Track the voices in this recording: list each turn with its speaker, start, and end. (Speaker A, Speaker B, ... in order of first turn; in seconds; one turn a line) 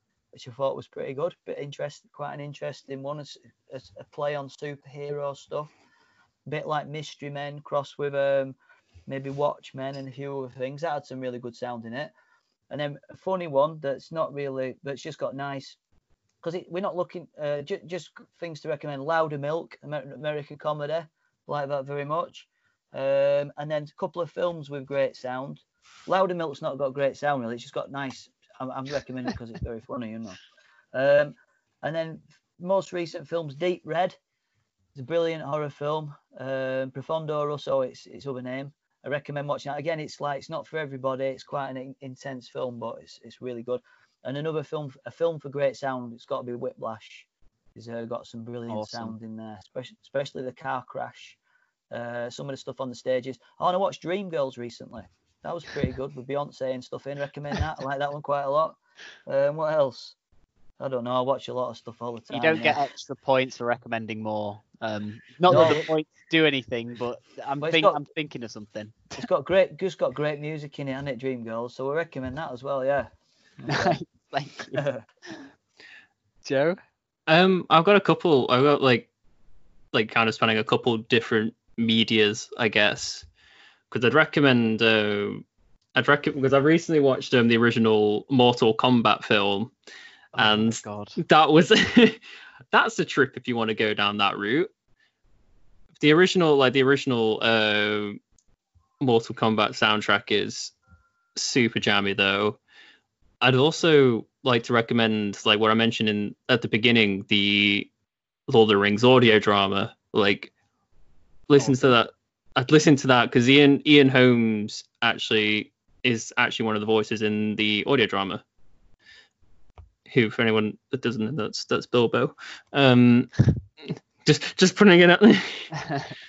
Speaker A: 0.3-5.7
Speaker A: 6.5-8.5
Speaker A: 9.1-12.1
Speaker A: 12.7-15.8
Speaker A: 16.4-30.4
Speaker A: 30.9-34.2
Speaker A: 34.9-51.4
Speaker B: 48.7-49.1
Speaker A: 51.9-60.1
Speaker A: 60.8-62.8
Speaker B: 62.3-69.2
Speaker A: 65.5-65.8
Speaker A: 67.6-68.0
Speaker A: 69.2-74.0
Speaker B: 73.7-74.8
Speaker A: 74.7-75.0
Speaker B: 76.4-76.8
Speaker C: 77.3-79.1
Speaker C: 79.9-83.2
Speaker C: 83.9-85.4
Speaker C: 85.9-89.7
Speaker B: 90.3-91.2
Speaker C: 90.4-92.2
Speaker C: 92.7-94.7
Speaker C: 96.0-98.2
Speaker C: 99.0-100.7
Speaker C: 101.3-102.6
Speaker C: 103.4-107.9
Speaker C: 108.5-110.5
Speaker C: 111.5-118.4
Speaker C: 120.1-123.5
Speaker C: 124.2-125.8